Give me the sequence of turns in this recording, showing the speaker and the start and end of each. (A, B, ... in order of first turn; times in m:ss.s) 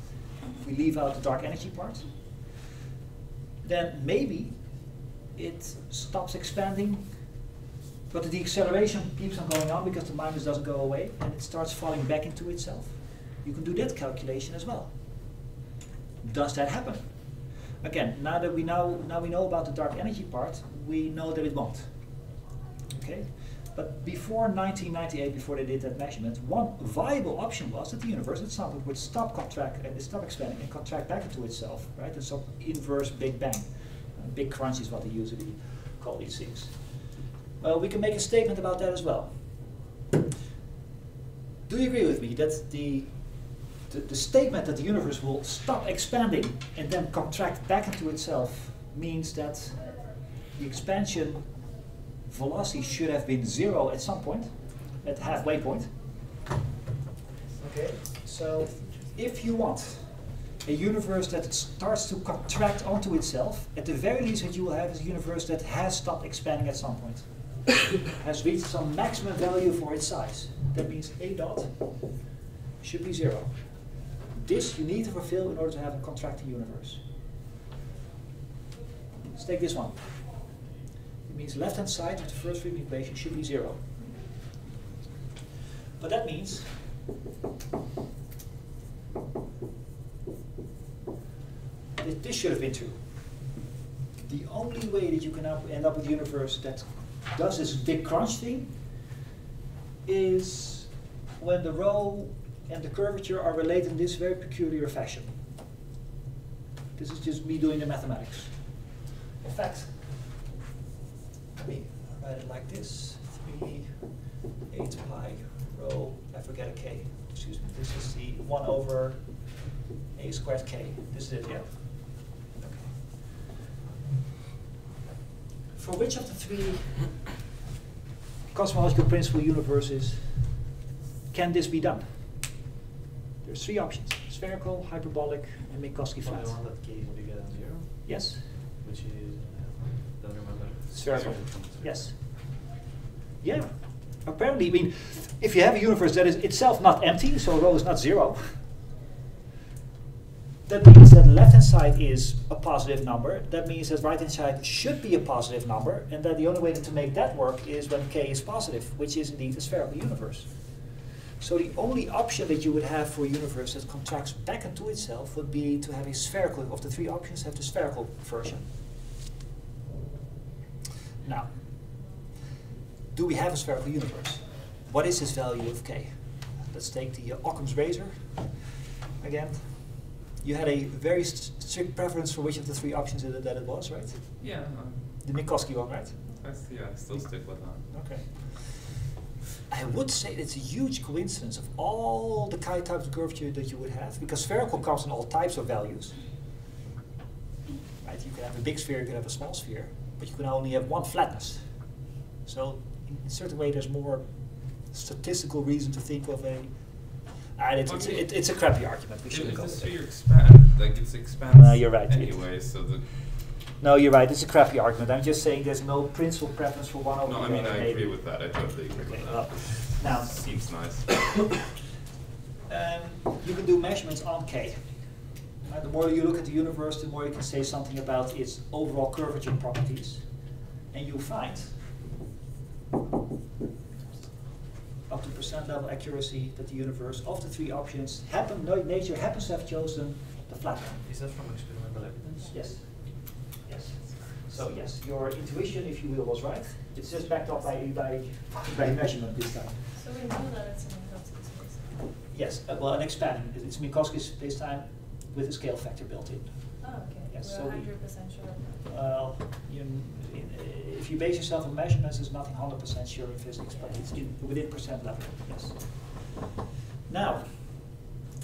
0:00.6-0:02.1 A
0:03.6-0:04.6 A
0:05.3-0:07.0 A
0:08.1-0:14.9 A
0:16.2-0:17.1 A
0:17.8-0:21.9 A
0:22.9-0:37.0 A
0:37.6-0:39.4 A
0:41.7-0:43.1 A
0:43.9-0:51.7 A
0:52.2-0:55.9 A
0:57.6-1:07.3 A
1:08.0-1:11.9 A
1:12.8-1:13.5 A
1:14.4-1:17.0 A
1:19.3-1:20.4 A
1:21.2-1:23.8 A
1:26.0-1:26.7 A
1:32.0-1:33.0 A
1:34.3-1:38.7 A
1:40.0-1:45.3 A
1:47.0-1:48.8 A
1:49.4-1:50.1 A
1:51.6-1:54.0 A
1:54.6-1:59.6 A
2:00.1-2:03.2 A
2:05.7-2:07.3 A
2:08.5-2:10.4 A
2:11.3-2:12.0 A
2:13.4-2:16.6 A
2:16.2-2:22.0 B
2:18.0-2:18.4 A
2:20.9-2:22.1 A
2:21.1-2:21.7 C
2:23.4-2:28.6 A
2:30.6-2:40.5 A
2:41.4-2:48.6 A
2:51.2-2:51.5 A
2:53.1-2:58.6 A
2:59.2-3:04.4 A
3:04.4-3:05.1 C
3:05.2-3:06.2 A
3:06.4-3:07.9 C
3:07.9-3:08.9 A
3:09.7-3:16.2 A
3:18.0-3:29.9 A
3:27.8-3:28.2 C
3:29.3-3:33.2 C
3:31.5-3:32.5 A
3:33.8-3:38.2 A
3:37.2-3:41.4 C
3:38.9-3:40.4 A
3:42.7-3:45.0 A
3:45.6-3:50.3 A
3:50.9-3:51.7 A
3:55.1-4:01.0 A
4:01.0-4:02.5 B
4:02.4-4:09.8 A
4:10.0-4:12.0 D
4:12.3-4:17.9 A
4:16.8-4:18.9 D
4:18.9-4:26.4 A
4:27.1-4:28.0 A